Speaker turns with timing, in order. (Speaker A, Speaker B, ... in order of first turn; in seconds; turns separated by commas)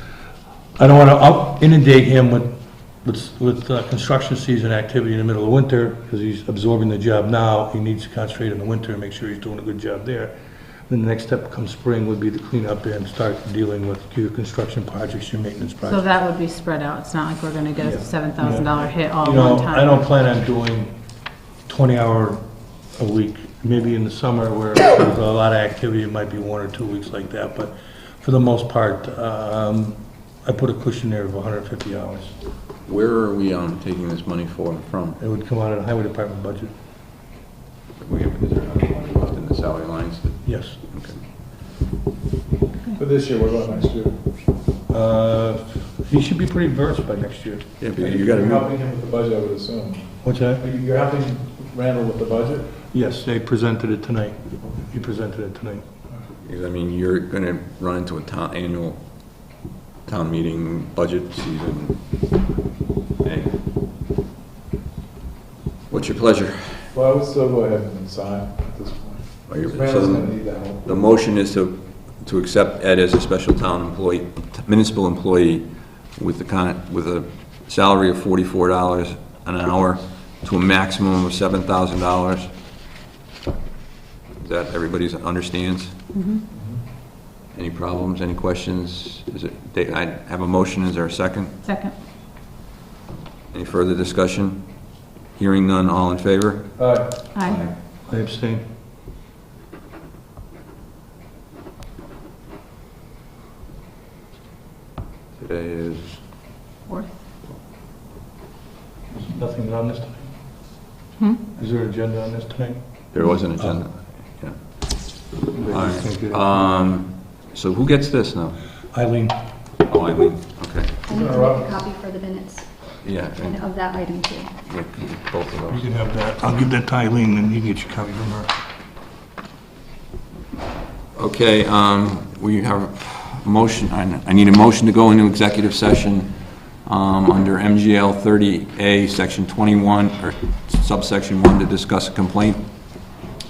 Speaker A: 0.8-10.3, Speaker A: 10.9-16.1, Speaker B: 15.8-20.0, Speaker A: 17.8-20.9, Speaker A: 21.6-22.4, Speaker A: 22.9-32.4, Speaker C: 32.9-35.2, Speaker A: 35.2-36.7, Speaker C: 38.0-41.2, Speaker A: 40.4-40.8, Speaker D: 43.0-44.2, Speaker A: 44.9-47.7, Speaker C: 47.8-48.7, Speaker D: 48.0-52.7, Speaker A: 50.2-50.6, Speaker A: 52.9-55.9, Speaker C: 56.4-62.0, Speaker C: 63.2-63.6, Speaker C: 65.9-66.9, Speaker D: 66.9-70.8, Speaker C: 69.5-82.5, Speaker C: 84.4-85.9, Speaker B: 86.1-86.4, Speaker D: 86.5-86.8, Speaker C: 87.5-91.6, Speaker B: 91.6-91.9, Speaker C: 93.5-96.7, Speaker D: 96.8-97.5, Speaker B: 97.3-97.7, Speaker A: 98.0-98.6, Speaker C: 105.4-106.2, Speaker B: 106.8-107.1, Speaker A: 109.1-110.3, Speaker B: 111.2-111.4, Speaker A: 111.5-113.8, Speaker C: 113.1-118.6, Speaker A: 115.5-116.6, Speaker A: 118.9-119.3, Speaker C: 119.9-120.9, Speaker E: 121.0-124.5, Speaker D: 121.1-121.7, Speaker C: 123.0-123.6, Speaker C: 124.7-125.8, Speaker A: 125.7-128.5, Speaker C: 131.1-142.6